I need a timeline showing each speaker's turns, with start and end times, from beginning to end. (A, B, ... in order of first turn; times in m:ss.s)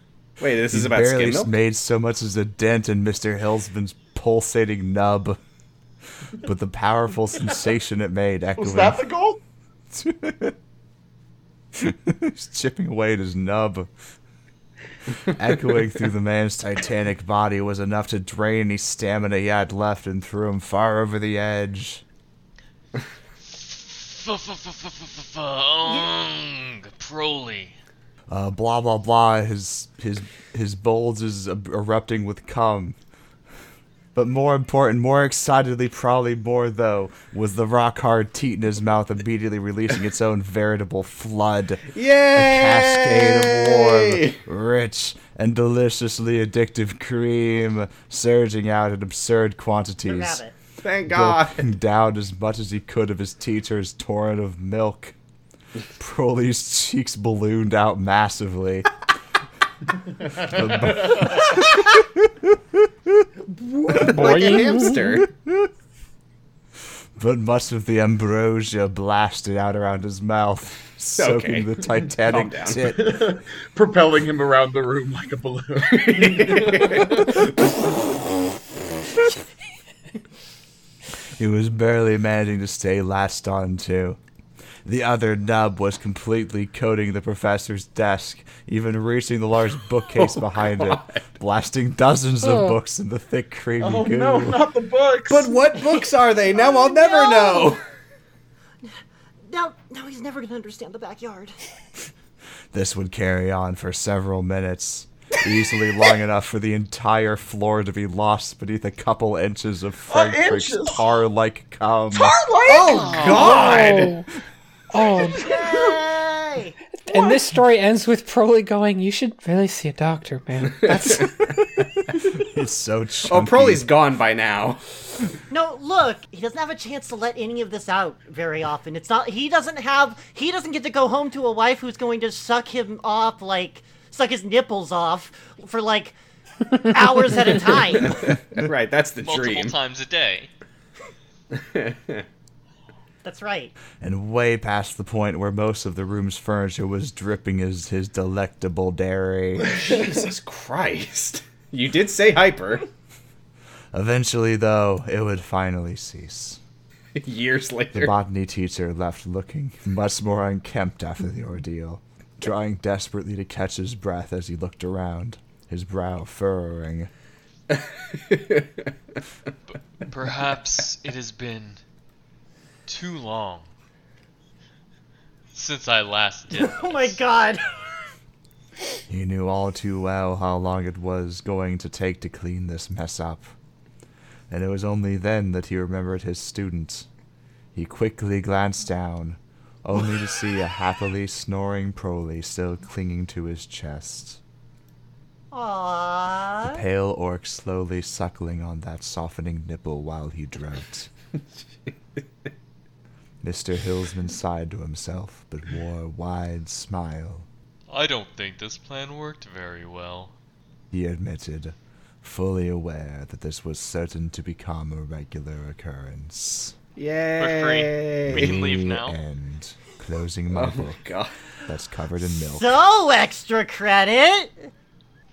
0:00.4-0:01.5 A
0:00.7-0:05.4 B
0:06.4-0:09.0 B
0:08.6-0:09.4 C
0:09.9-0:10.6 B
0:11.7-0:13.9 B
0:15.3-0:22.0 B
0:23.5-0:27.8 D
0:25.8-0:26.1 E
0:28.3-0:33.0 B
0:34.2-0:50.4 B
0:41.9-0:44.4 A
0:50.0-0:50.5 E
0:50.8-0:51.7 A
0:51.1-0:55.2 B
0:56.0-0:58.9 B
1:00.2-1:01.5 C
1:00.5-1:02.9 B
1:03.9-1:04.3 C
1:03.9-1:05.2 F
1:04.0-1:05.7 B
1:04.0-1:05.3 A
1:07.2-1:13.2 B
1:11.1-1:13.0 A
1:12.9-1:17.4 C
1:15.8-1:17.5 A
1:21.3-1:24.2 B
1:24.8-1:34.6 B
1:30.1-1:31.2 A
1:32.4-1:32.7 F
1:33.8-1:35.6 C
1:35.3-1:37.8 A
1:36.5-1:37.7 E
1:39.5-1:41.7 E
1:42.7-1:52.4 B
1:50.1-1:51.1 C
1:52.1-1:53.7 C
1:52.7-1:54.2 A
1:52.8-1:54.3 F
1:54.9-1:55.4 F
1:55.2-1:55.9 C
1:55.3-1:57.2 E
1:57.0-2:01.3 F
2:00.8-2:01.2 A
2:02.5-2:03.8 B
2:03.3-2:04.8 A
2:05.5-2:16.2 E
2:16.8-2:18.3 E
2:18.0-2:19.7 A
2:19.2-2:20.5 D
2:21.5-2:22.2 A
2:23.2-2:23.7 E
2:24.0-2:29.8 B
2:29.6-2:32.8 A
2:33.9-2:36.6 B
2:37.2-2:38.2 A
2:37.9-2:47.1 B
2:47.7-2:48.9 A
2:49.7-2:51.8 D
2:52.9-2:53.7 D
2:55.5-2:57.2 D
2:56.5-2:57.6 E
2:59.1-3:03.6 B
3:04.5-3:07.1 B
3:07.7-3:14.4 B
3:15.5-3:16.8 E
3:16.6-3:21.1 B
3:23.4-3:27.5 B
3:27.9-3:30.3 D
3:30.9-3:36.7 B
3:37.0-3:38.6 A
3:37.4-3:39.2 D
3:38.3-3:41.0 B
3:40.5-3:41.3 A
3:41.7-3:42.7 B
3:42.4-3:44.7 E